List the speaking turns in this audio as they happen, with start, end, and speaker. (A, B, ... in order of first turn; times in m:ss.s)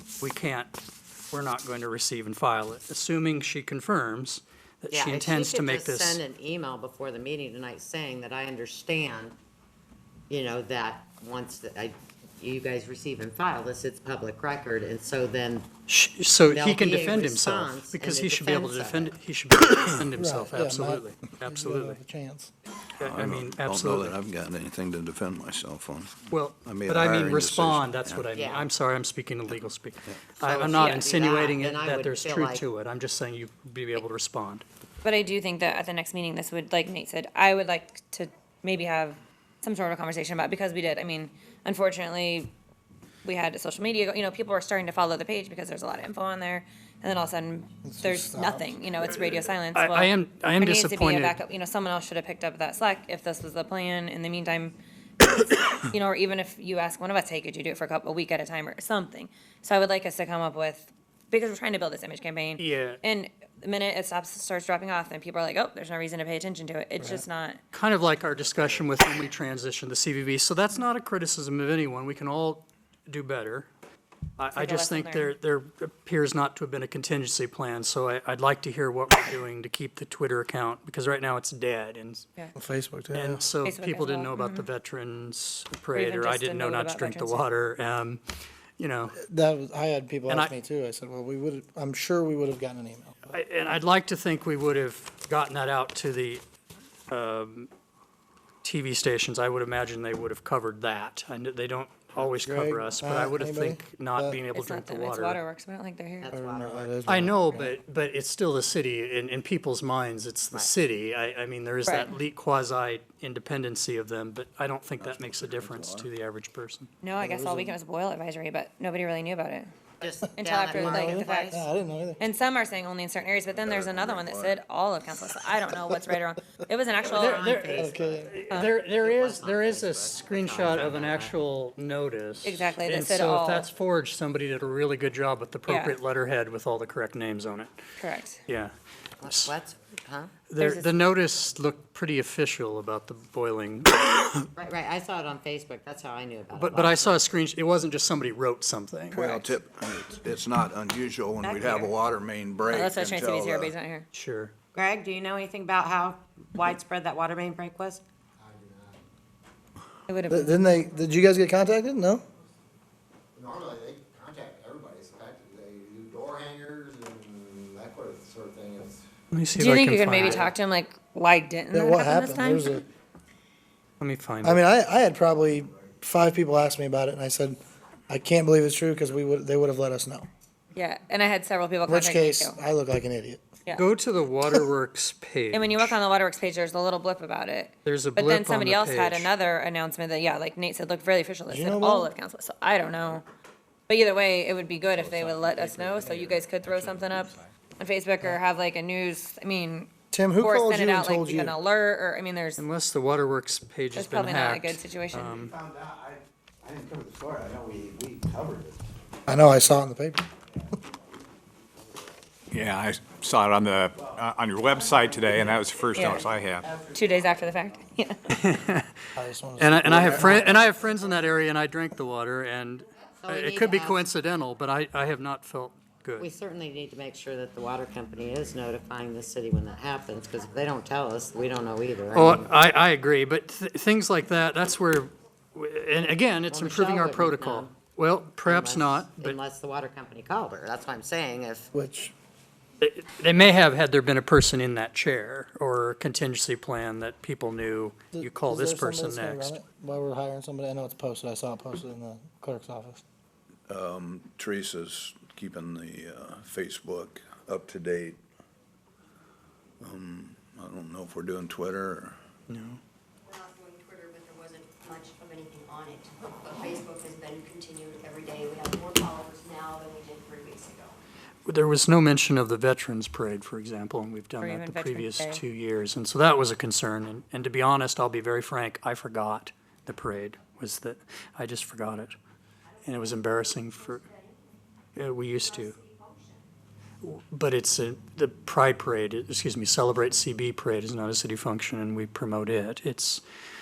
0:00.2-0:00.7 A
0:01.3-0:06.2 A
0:04.9-0:09.4 B
0:10.3-0:15.7 B
0:15.9-0:22.0 A
0:16.5-0:19.2 B
0:20.2-0:22.5 C
0:23.0-0:24.2 A
0:23.0-0:28.2 D
0:26.3-0:34.6 A
0:28.3-0:28.7 B
0:30.4-0:32.6 B
0:30.6-0:31.1 E
0:35.0-0:42.5 E
0:43.2-1:07.6 E
0:47.8-0:48.8 C
0:49.7-0:51.4 A
1:02.6-1:03.0 A
1:07.7-1:13.7 A
1:14.4-1:22.3 A
1:14.6-1:15.3 E
1:22.6-1:23.4 C
1:23.1-1:28.2 A
1:23.6-1:24.7 E
1:25.9-1:27.5 E
1:28.8-1:29.2 A
1:29.2-1:33.3 C
1:30.3-1:30.5 A
1:33.3-1:36.4 A
1:37.1-1:37.7 A
1:38.6-1:45.4 A
1:42.2-1:44.4 C
1:44.5-1:46.3 E
1:46.2-1:47.3 B
1:46.3-1:47.7 C
1:47.1-1:56.9 A
1:51.9-1:52.1 E
1:55.0-1:56.1 D
1:57.0-1:59.7 E
1:57.2-1:57.8 C
2:00.0-2:01.6 B
2:00.2-2:02.2 C
2:00.4-2:01.6 E
2:02.2-2:07.6 E
2:03.5-2:04.6 D
2:07.0-2:08.0 B
2:07.1-2:17.8 A
2:07.7-2:08.4 C
2:08.6-2:11.3 B
2:12.4-2:13.7 E
2:15.7-2:16.0 E
2:18.0-2:18.4 E
2:18.5-2:18.7 A
2:19.2-2:20.3 B
2:19.3-2:19.6 A
2:20.5-2:24.5 A
2:20.6-2:21.0 E
2:24.6-2:27.2 B
2:26.6-2:29.4 A
2:29.1-2:33.8 D
2:31.4-2:31.9 E
2:32.7-2:34.1 E
2:34.1-2:34.5 A
2:34.7-2:38.0 B
2:38.4-2:39.0 F
2:40.1-2:40.6 E
2:40.3-2:42.2 C
2:43.4-2:49.0 F
2:49.3-2:50.5 A
2:49.6-2:52.8 E
2:51.7-2:52.8 C
2:54.0-2:54.6 A
2:54.4-2:57.6 C
2:58.1-3:00.3 C
3:00.8-3:02.6 E
3:01.9-3:03.6 C
3:03.8-3:05.8 A
3:05.5-3:13.3 E
3:07.8-3:09.3 A
3:11.5-3:12.1 C
3:13.9-3:22.6 E
3:20.1-3:21.6 C
3:22.6-3:25.6 A
3:24.0-3:25.5 E
3:25.8-3:28.8 F
3:29.3-3:30.3 C
3:32.5-3:36.7 G
3:34.7-3:35.7 F
3:36.0-3:36.3 E
3:36.6-3:37.6 F
3:36.9-3:38.2 E
3:38.3-3:38.9 A
3:39.2-3:40.5 C
3:39.6-3:46.3 A
3:43.2-3:44.0 B
3:46.2-3:52.5 B
3:52.1-3:59.4 A
3:56.5-3:57.8 B
3:58.4-4:01.7 B
4:01.7-4:02.2 C
4:02.8-4:09.6 A
4:08.1-4:13.0 C
4:13.7-4:18.2 D
4:19.8-4:22.2 D
4:22.5-4:22.8 A
4:23.3-4:31.0 H
4:31.5-4:42.2 A
4:34.4-4:35.4 E
4:42.8-4:44.1 A
4:43.8-4:44.4 H
4:45.0-4:45.8 A
4:45.4-4:46.4 H
4:47.0-4:53.2 A